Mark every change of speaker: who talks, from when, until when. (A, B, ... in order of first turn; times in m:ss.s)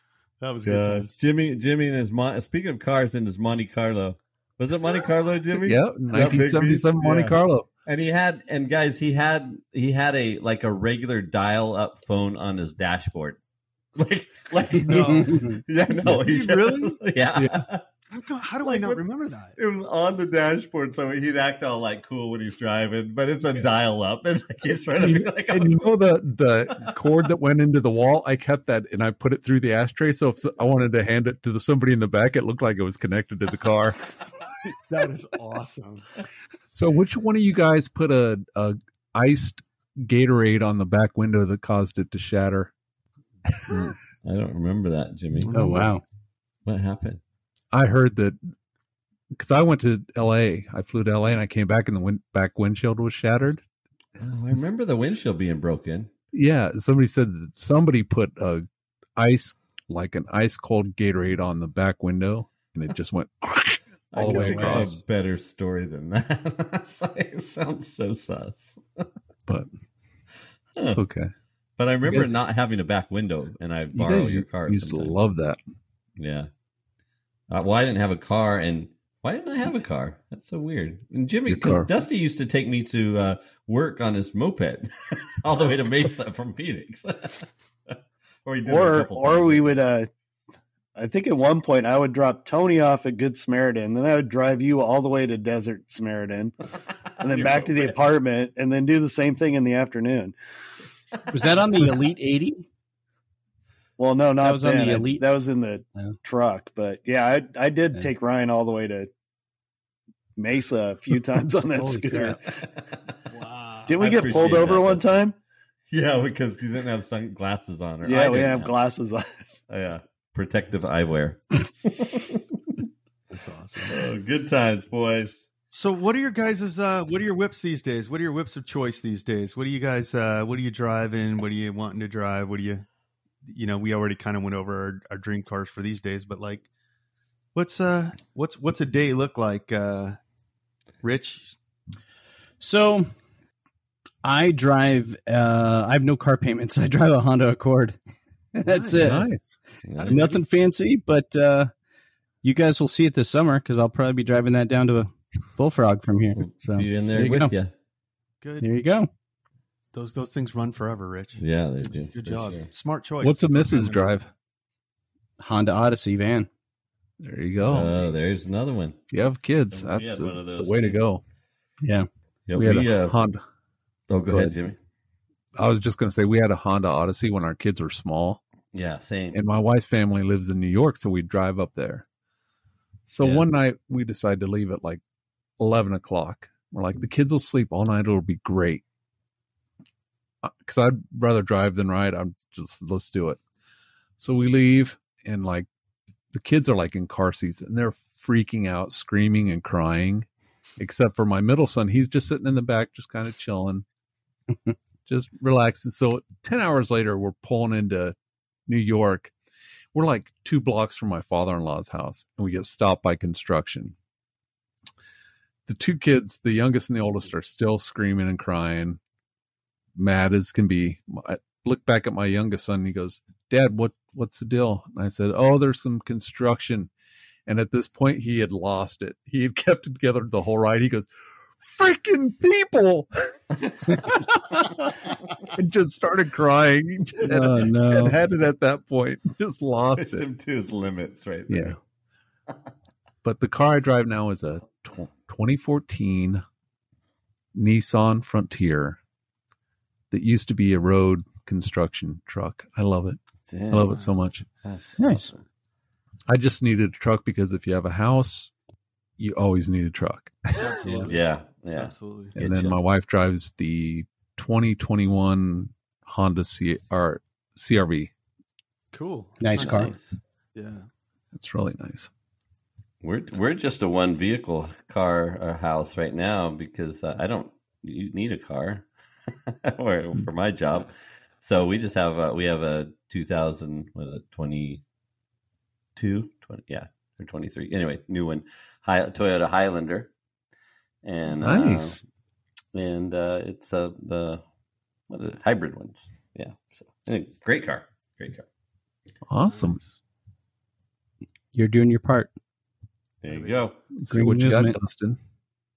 0:00.4-0:01.1 A
0:00.6-0:13.4 B
0:05.6-0:07.7 C
0:14.0-0:17.8 B
0:14.8-0:17.0 A
0:15.2-0:15.6 D
0:17.3-0:17.6 C
0:18.1-0:19.5 A
0:18.6-0:19.0 B
0:19.6-0:25.8 B
0:25.0-0:34.0 C
0:34.9-0:36.0 A
0:36.7-0:42.7 C
0:43.7-0:45.7 B
0:45.4-0:45.8 A
0:45.5-0:46.0 D
0:46.6-0:47.2 B
0:47.7-0:48.4 C
0:49.3-0:53.6 C
0:54.2-0:56.1 B
0:56.3-0:58.6 C
0:59.2-1:05.0 C
1:04.1-1:09.1 B
1:04.3-1:04.8 D
1:10.8-1:11.0 B
1:10.8-1:11.3 C
1:11.8-1:15.1 B
1:12.0-1:12.3 C
1:13.9-1:15.6 C
1:16.2-1:16.5 B
1:17.5-1:29.8 B
1:21.5-1:21.9 C
1:28.6-1:30.1 E
1:31.0-1:36.5 E
1:37.2-1:38.0 B
1:37.2-1:40.3 E
1:41.3-1:42.6 D
1:44.0-1:49.1 E
1:44.4-1:45.2 D
1:50.4-1:52.5 E
1:51.8-1:52.3 D
1:53.3-1:54.2 A
1:53.9-1:55.3 E
1:54.0-1:55.1 B
1:55.9-1:58.7 B
1:58.0-1:59.3 E
1:59.7-2:02.8 B
2:03.3-2:04.0 A
2:03.9-2:05.5 B
2:05.7-2:12.8 A
2:13.4-2:16.6 A
2:17.5-2:20.2 A
2:21.0-2:21.5 A
2:22.6-2:23.1 D
2:24.2-2:28.0 D
2:28.5-2:29.2 D
2:28.6-2:29.2 A
2:29.0-2:29.6 C
2:29.8-2:30.4 B
2:30.1-2:31.7 D
2:32.4-2:37.5 D
2:36.4-2:37.7 B
2:38.4-2:38.7 A
2:38.6-2:39.1 D
2:39.9-2:41.4 A
2:41.4-2:42.7 B
2:42.1-2:44.1 A
2:43.2-2:44.3 C
2:45.4-2:46.5 D
2:47.2-2:48.0 C
2:47.6-2:49.0 B
2:49.1-2:51.2 C
2:49.7-2:51.0 B
2:51.8-2:52.1 D
2:52.5-2:53.2 B
2:52.6-2:53.4 C
2:54.1-2:54.8 B
2:55.6-2:58.4 C
2:58.7-2:59.4 B
2:59.3-3:02.0 C
3:03.1-3:05.0 C
3:05.6-3:08.8 C
3:10.4-3:13.4 C
3:14.2-3:15.7 C
3:16.3-3:20.3 C
3:20.8-3:23.8 C
3:25.0-3:28.1 C
3:28.7-3:29.3 C
3:29.9-3:34.0 C
3:35.7-3:39.0 C
3:39.9-3:46.9 C
3:47.4-3:54.9 C
3:55.5-4:00.3 C
3:57.3-3:58.2 D
3:59.9-4:01.8 B
4:01.5-4:01.8 C
4:03.2-4:06.4 C
4:07.5-4:09.0 C
4:10.1-4:13.2 C
4:13.5-4:14.1 B
4:13.7-4:14.5 C
4:14.6-4:15.4 B
4:15.0-4:15.3 D
4:16.3-4:18.5 C
4:19.2-4:20.8 C
4:20.6-4:21.2 A
4:20.7-4:22.8 B
4:21.8-4:22.3 A
4:22.3-4:28.1 C
4:28.9-4:29.9 A
4:29.4-4:29.9 D
4:29.6-4:30.2 B
4:30.5-4:30.8 A
4:31.3-4:32.1 C
4:33.0-4:38.9 B
4:39.5-4:44.8 B
4:46.0-4:50.1 B
4:51.0-4:52.0 B
4:51.4-4:52.0 C
4:52.7-4:54.4 B
4:55.1-4:58.4 B
4:59.3-4:59.8 C
5:01.5-5:02.3 D
5:03.2-5:03.8 B
5:03.2-5:03.7 A
5:04.0-5:05.2 C
5:04.1-5:04.8 D